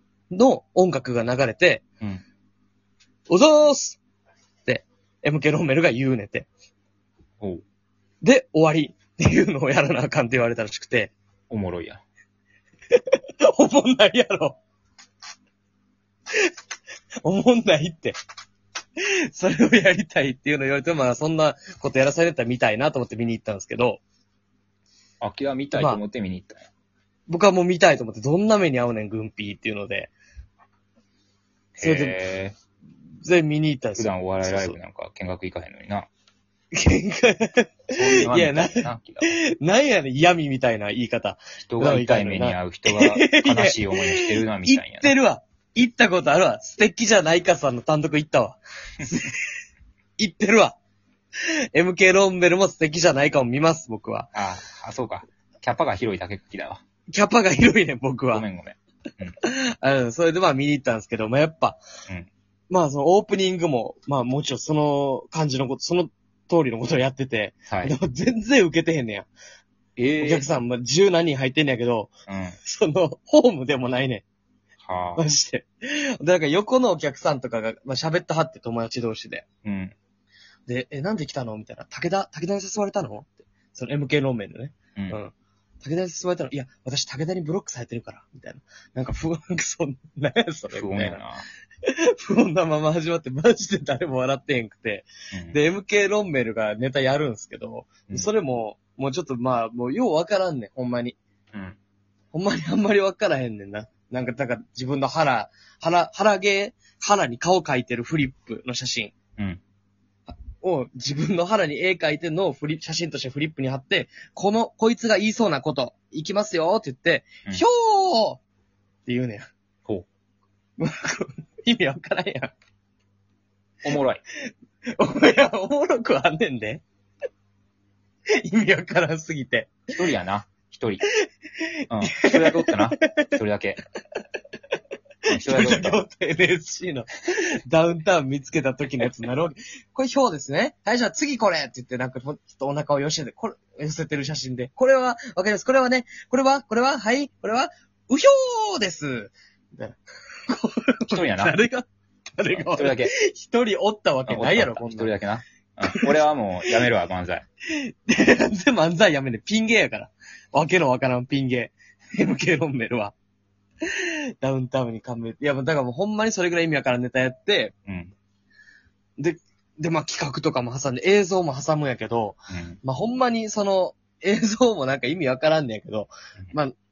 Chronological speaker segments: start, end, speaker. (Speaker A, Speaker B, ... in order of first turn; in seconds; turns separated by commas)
Speaker A: 0.3-1.8, Speaker A: 3.3-4.0, Speaker A: 4.7-6.5, Speaker A: 8.2-11.1, Speaker B: 11.5-12.0, Speaker A: 12.9-14.6, Speaker A: 17.2-18.2, Speaker A: 19.3-24.0, Speaker B: 25.2-26.6, Speaker A: 25.7-26.0, Speaker A: 27.3-30.1, Speaker B: 31.7-32.5, Speaker A: 31.8-32.2, Speaker A: 33.2-34.8, Speaker B: 34.0-36.1, Speaker A: 36.7-49.5, Speaker B: 37.9-39.4, Speaker B: 41.6-45.1, Speaker A: 50.2-50.8, Speaker A: 51.7-54.3, Speaker B: 54.3-56.8, Speaker A: 57.1-58.4, Speaker B: 58.3-59.4, Speaker A: 59.4-61.8, Speaker A: 62.7-69.3, Speaker B: 67.7-67.9, Speaker B: 70.0-70.5, Speaker A: 70.2-72.1, Speaker B: 72.3-72.6, Speaker A: 72.6-74.2, Speaker B: 74.8-75.2, Speaker A: 75.2-79.4, Speaker B: 79.6-79.9, Speaker A: 80.7-91.2, Speaker B: 90.7-91.5, Speaker A: 91.8-101.2, Speaker B: 95.3-95.6, Speaker B: 101.5-101.8, Speaker A: 102.3-109.1, Speaker A: 110.3-118.4, Speaker A: 119.0-119.5, Speaker A: 120.8-122.5, Speaker B: 123.8-124.2, Speaker A: 124.9-126.8, Speaker A: 128.4-129.9, Speaker B: 129.9-131.0, Speaker A: 131.1-133.3, Speaker B: 131.9-133.8, Speaker B: 135.3-136.0, Speaker A: 135.3-155.2, Speaker B: 151.1-151.6, Speaker B: 152.5-153.1, Speaker B: 154.3-157.4, Speaker A: 155.8-156.1, Speaker A: 157.7-163.1, Speaker A: 163.8-167.7, Speaker B: 167.9-168.1, Speaker A: 169.2-176.7, Speaker B: 172.5-172.8